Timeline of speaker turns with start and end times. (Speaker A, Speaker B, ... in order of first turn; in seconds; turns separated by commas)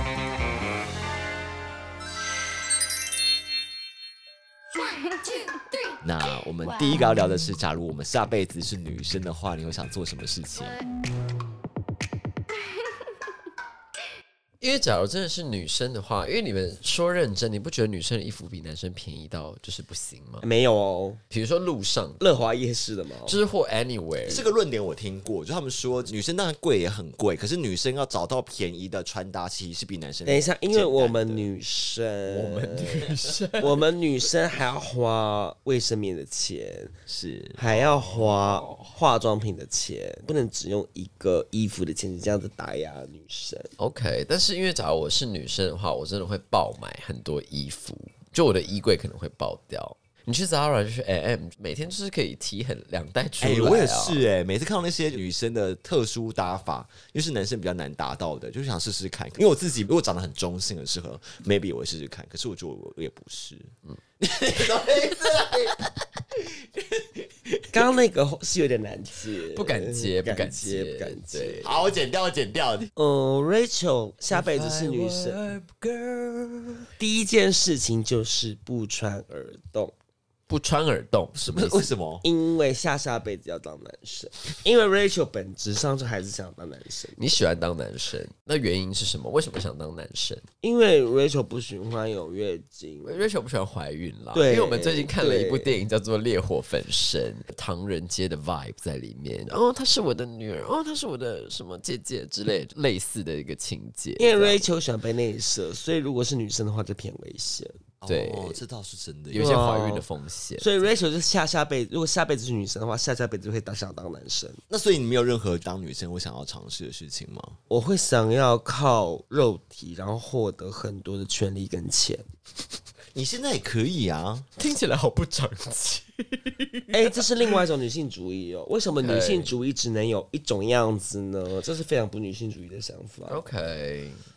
Speaker A: 6.0-10.8, Speaker B: 14.6-20.5, Speaker C: 20.4-21.2, Speaker B: 21.3-22.2, Speaker C: 22.2-23.4, Speaker B: 23.2-24.5, Speaker A: 24.3-31.5, Speaker C: 30.2-36.9, Speaker B: 32.2-33.9, Speaker A: 37.1-37.6, Speaker C: 37.6-43.7, Speaker B: 37.7-38.9, Speaker B: 43.8-54.2, Speaker A: 53.4-65.8, Speaker A: 66.8-67.9, Speaker C: 67.7-71.6, Speaker B: 69.5-71.7, Speaker A: 71.6-72.9, Speaker C: 73.0-75.5, Speaker B: 74.3-76.9, Speaker C: 77.0-79.9, Speaker B: 80.5-81.8, Speaker A: 81.4-82.2, Speaker C: 82.2-87.3, Speaker B: 87.2-90.5, Speaker C: 90.6-93.2, Speaker B: 93.0-104.6, Speaker C: 94.3-95.7, Speaker C: 104.2-107.8, Speaker A: 108.0-109.5, Speaker B: 108.1-108.6, Speaker B: 109.3-110.9, Speaker C: 109.3-110.0, Speaker C: 110.6-114.6, Speaker A: 114.7-117.5, Speaker C: 117.7-122.3, Speaker A: 123.1-124.5, Speaker B: 124.6-127.5, Speaker C: 126.9-133.4, Speaker B: 129.0-129.6, Speaker B: 133.3-134.2